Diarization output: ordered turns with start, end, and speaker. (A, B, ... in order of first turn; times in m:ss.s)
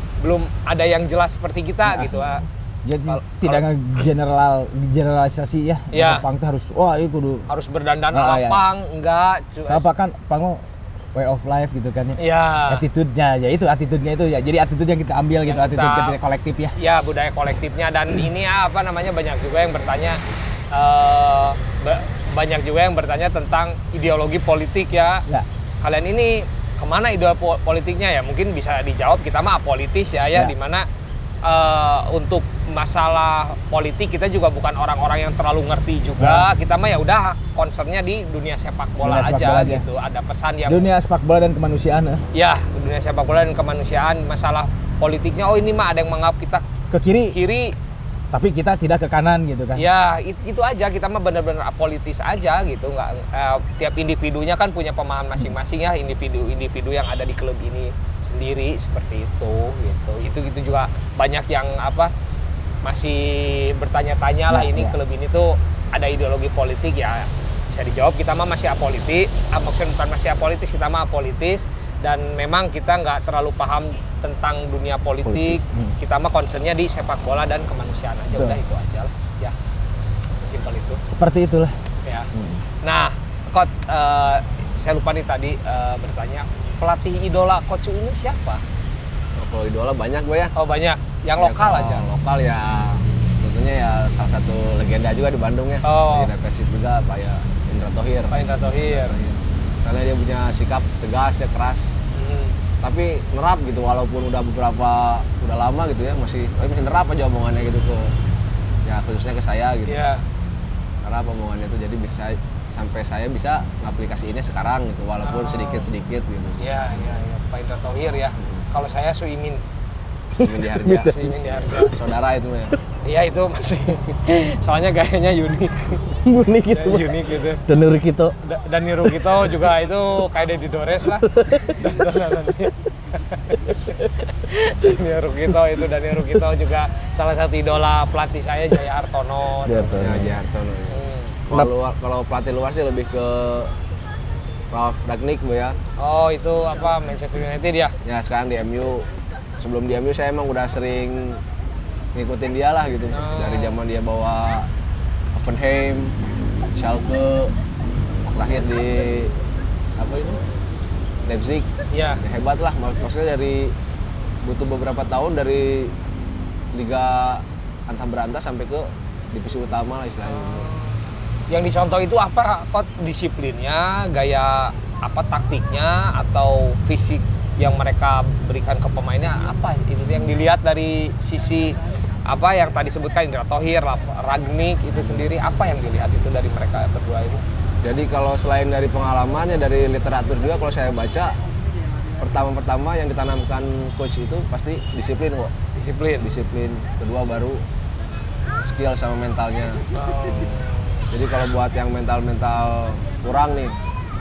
0:00.2-0:02.5 A
0:01.9-0:02.3 B
0:02.8-0:07.5 B
0:03.1-0:03.6 A
0:05.9-0:06.2 A
0:07.5-0:09.9 A
0:08.1-0:08.6 B
0:09.6-0:10.6 B
0:11.2-0:16.7 B
0:12.2-0:12.8 A
0:15.5-0:16.2 A
0:16.8-0:20.2 A
0:20.7-0:25.3 A
0:25.8-0:30.9 A
0:31.4-0:40.9 A
0:36.2-0:36.5 B
0:39.0-0:39.8 B
0:40.7-0:42.2 B
0:42.3-0:46.6 A
0:46.9-0:47.4 B
0:47.3-0:47.8 A
0:48.3-0:49.8 B
0:49.8-1:02.1 A
1:02.8-1:19.5 A
1:04.5-1:05.0 B
1:15.3-1:15.9 B
1:18.3-1:18.6 B
1:20.4-1:21.0 A
1:21.1-1:21.7 B
1:22.3-1:22.6 C
1:22.8-1:28.6 A
1:29.4-1:30.5 D
1:30.6-1:32.0 A
1:31.4-1:41.9 D
1:35.8-1:36.3 A
1:38.3-1:39.2 A
1:42.1-1:42.6 A
1:42.8-1:48.1 D
1:48.8-1:50.0 D
1:49.9-1:50.2 A
1:51.0-1:56.7 D
1:55.2-1:55.9 A
1:56.6-1:59.6 A
1:58.4-1:58.6 D
2:00.4-2:02.8 D
2:00.4-2:01.4 C
2:01.0-2:01.9 A
2:03.1-2:06.2 A
2:06.3-2:07.2 C
2:06.7-2:07.6 A
2:07.7-2:08.4 C
2:08.4-2:12.8 A
2:11.3-2:12.0 C
2:13.3-2:20.2 A
2:19.7-2:20.3 C
2:20.0-2:21.0 D
2:20.9-2:21.3 A
2:21.5-2:23.7 D
2:24.7-2:25.8 D
2:26.0-2:27.9 A
2:28.0-2:29.1 D
2:29.6-2:31.4 D
2:32.2-2:34.7 D
2:33.1-2:33.8 A
2:35.4-2:36.2 D
2:36.7-2:37.5 D
2:38.3-2:39.3 D
2:40.0-2:40.4 D
2:41.3-2:41.7 D
2:41.9-2:42.2 A
2:42.2-2:43.7 D
2:44.4-2:45.9 D
2:46.7-2:50.7 D
2:50.3-2:51.0 A
2:51.5-3:07.4 A
3:07.8-3:11.4 D
3:12.2-3:15.5 D
3:15.8-3:16.4 A
3:16.2-3:17.6 D
3:18.6-3:19.9 D
3:19.9-3:21.0 A
3:21.1-3:23.8 D